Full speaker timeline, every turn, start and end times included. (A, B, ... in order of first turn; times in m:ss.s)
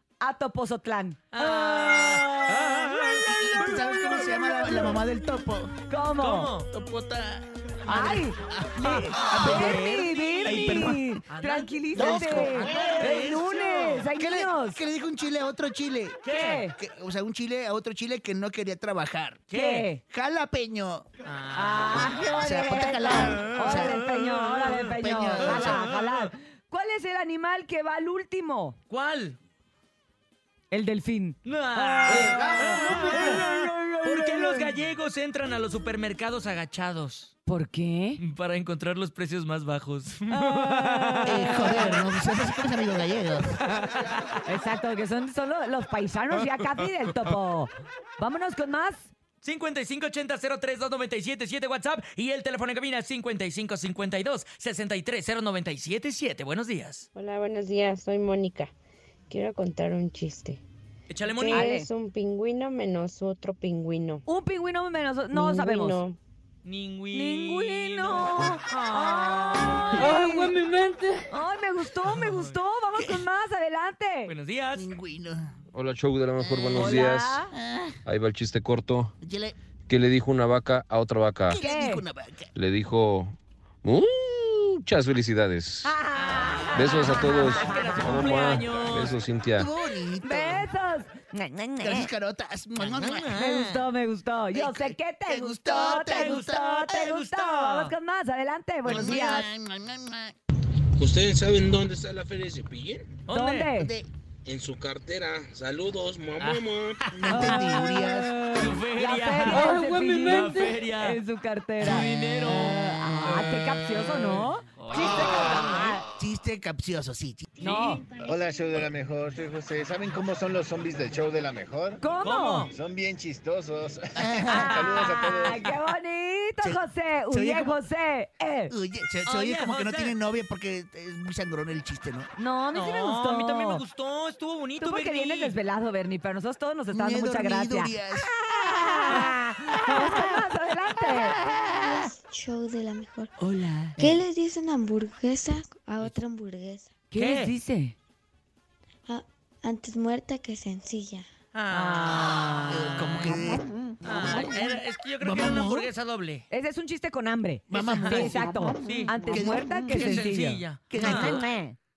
0:00.2-0:03.0 A
0:01.3-0:04.8 B
0:03.0-0:05.7 C
0:05.9-0:06.5 A
0:06.2-0:06.7 B
0:06.7-0:11.2 C
0:07.8-0:14.8 A
0:09.0-0:14.1 B
0:11.9-0:13.4 C
0:14.2-0:19.4 C
0:16.2-0:16.6 B
0:16.3-0:16.8 A
0:19.5-0:19.9 B
0:19.5-0:20.0 A
0:20.1-0:21.1 C
0:21.2-0:22.2 B
0:21.5-0:28.8 A
0:22.2-0:24.1 C
0:23.4-0:26.3 B
0:24.8-0:25.9 C
0:28.9-0:29.4 B
0:30.7-0:34.8 A
0:31.4-0:37.4 B
0:37.5-0:38.2 A
0:38.2-0:41.5 B
0:40.3-0:41.9 A
0:41.2-0:43.6 C
0:43.8-0:44.2 B
0:44.4-0:49.1 A
0:49.4-0:57.1 B
0:57.2-0:58.7 D
0:59.3-1:00.6 D
1:01.1-1:01.7 B
1:01.3-1:04.2 D
1:01.5-1:01.9 A
1:04.3-1:06.0 A
1:05.3-1:06.2 D
1:06.6-1:10.0 B
1:07.1-1:10.6 A
1:10.0-1:11.3 E
1:11.3-1:14.3 A
1:12.0-1:12.6 B
1:13.0-1:13.2 C
1:14.3-1:14.9 B
1:14.7-1:15.6 C
1:15.7-1:17.4 F
1:16.4-1:18.0 C
1:16.7-1:17.5 A
1:18.1-1:19.1 F
1:19.2-1:19.6 C
1:19.9-1:21.6 F
1:21.5-1:22.5 C
1:21.6-1:22.0 A
1:22.6-1:26.0 F
1:25.8-1:28.4 A
1:26.1-1:29.2 B
1:26.7-1:29.7 F
1:29.6-1:30.7 C
1:30.2-1:32.1 A
1:31.8-1:33.6 C
1:32.8-1:33.9 B
1:33.3-1:39.5 A
1:34.5-1:36.9 C
1:35.8-1:37.9 B
1:38.8-1:40.4 C
1:41.0-1:43.2 G
1:43.2-1:43.7 B
1:43.3-1:43.9 A
1:43.8-1:44.1 C
1:44.5-1:47.0 G
1:46.3-1:48.0 B
1:47.1-1:48.4 C
1:47.3-1:56.0 A
1:48.5-1:51.2 B
1:49.5-1:50.8 E
1:51.8-1:56.0 B
1:56.2-1:57.5 C
1:57.6-1:58.0 A
1:57.6-1:58.0 B
1:58.2-2:02.0 H
2:02.0-2:02.7 A
2:02.2-2:02.7 B
2:02.7-2:05.7 H
2:04.2-2:04.7 C
2:04.5-2:05.4 B
2:04.6-2:08.7 A
2:06.6-2:07.8 C
2:08.7-2:12.3 C
2:09.2-2:10.2 B
2:12.4-2:13.8 A
2:12.7-2:15.6 B
2:14.8-2:18.0 A
2:16.9-2:19.2 C
2:18.6-2:21.4 A
2:21.8-2:23.3 I
2:23.4-2:24.0 B
2:24.0-2:26.9 I
2:27.1-2:28.0 A
2:27.1-2:27.5 B
2:29.1-2:31.3 I
2:31.5-2:33.4 B
2:31.7-2:32.5 A
2:32.7-2:33.7 C
2:34.0-2:36.5 B
2:35.2-2:35.9 C
2:36.5-2:41.8 A
2:37.7-2:38.5 C
2:37.8-2:39.2 B
2:38.6-2:39.1 I
2:39.2-2:40.4 C
2:39.9-2:41.4 B
2:40.9-2:41.5 C